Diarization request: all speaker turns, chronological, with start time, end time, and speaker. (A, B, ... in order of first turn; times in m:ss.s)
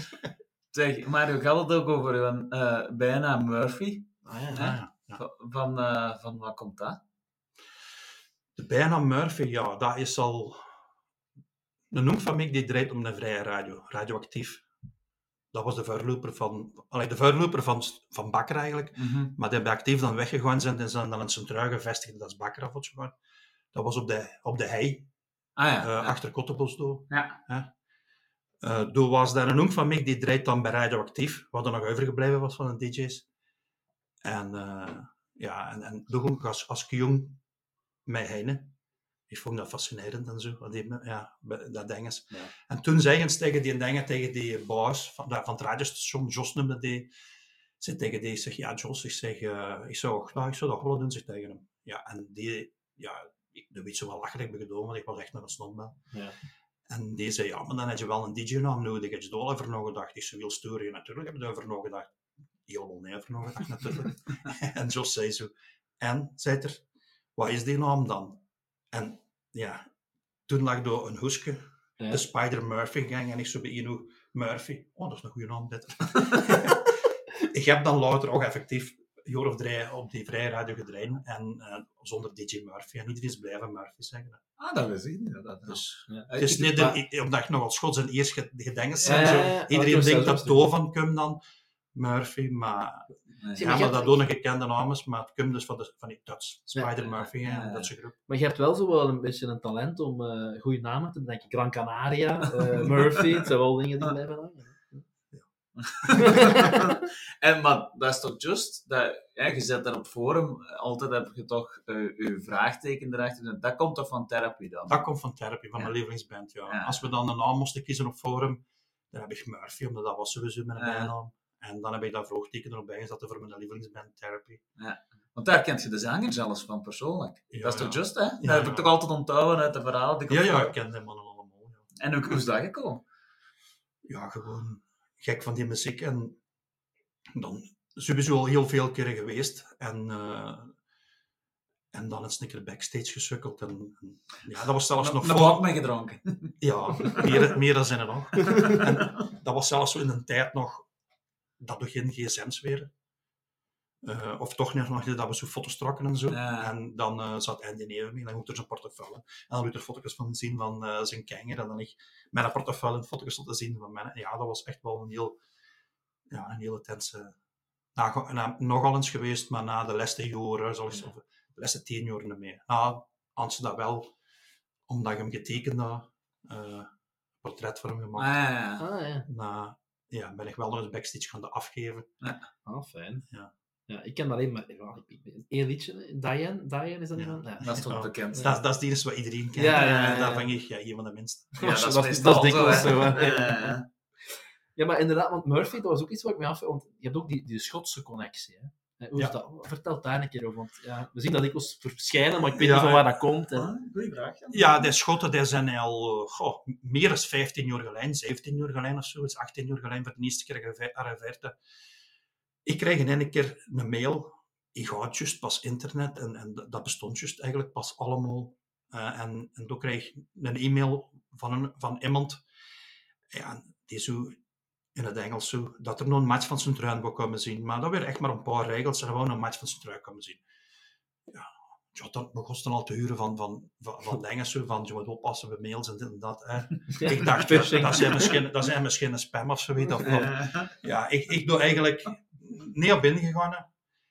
0:00.7-0:07.0 A
0:04.2-0:04.7 B
0:04.5-0:05.2 C
0:08.6-0:10.7 C
0:11.9-0:14.6 C
0:15.5-0:23.1 C
0:19.0-0:19.3 A
0:23.7-0:25.1 C
0:25.6-0:26.1 A
0:25.8-0:27.7 C
0:27.1-0:27.4 A
0:28.6-0:33.2 C
0:34.2-0:37.4 C
0:38.0-0:38.7 C
0:39.3-0:47.1 C
0:47.8-0:56.0 C
0:56.9-1:02.1 C
1:02.7-1:06.8 C
1:07.4-1:09.8 C
1:10.5-1:24.4 C
1:24.6-1:26.9 A
1:25.6-1:31.4 C
1:29.0-1:29.5 A
1:29.0-1:30.6 B
1:31.9-1:38.1 C
1:33.4-1:33.7 A
1:33.6-1:34.2 B
1:37.4-1:37.9 A
1:38.3-1:45.0 B
1:45.8-1:55.0 A
1:46.1-1:46.9 B
1:54.9-2:04.6 C
1:56.7-1:57.0 A
2:00.8-2:01.1 A
2:04.8-2:10.7 A
2:07.5-2:08.9 C
2:10.3-2:11.8 C
2:12.0-2:13.0 A
2:14.0-2:16.4 C
2:17.3-2:20.7 C
2:21.9-2:25.6 C
2:25.0-2:27.5 A
2:26.6-2:30.8 C
2:28.5-2:29.2 A
2:31.6-2:32.9 C
2:34.0-2:45.4 C
2:36.3-2:36.7 A
2:46.3-2:47.4 C
2:48.0-2:54.1 C
2:54.9-2:56.9 C
2:57.4-2:58.4 C
2:58.2-2:58.8 A
2:58.8-2:59.3 B
2:59.3-3:02.1 C
3:02.6-3:03.2 B
3:03.9-3:08.5 B
3:07.2-3:11.6 C
3:07.6-3:08.5 A
3:09.6-3:10.5 B
3:11.6-3:13.8 B
3:11.6-3:13.8 A
3:14.8-3:23.7 B
3:22.5-3:23.2 C
3:23.5-3:24.9 A
3:24.5-3:31.6 C
3:32.6-3:42.4 C
3:43.3-3:44.4 C
3:44.9-3:50.4 C
3:51.3-4:03.6 C
3:56.9-3:58.4 B
4:00.1-4:00.7 A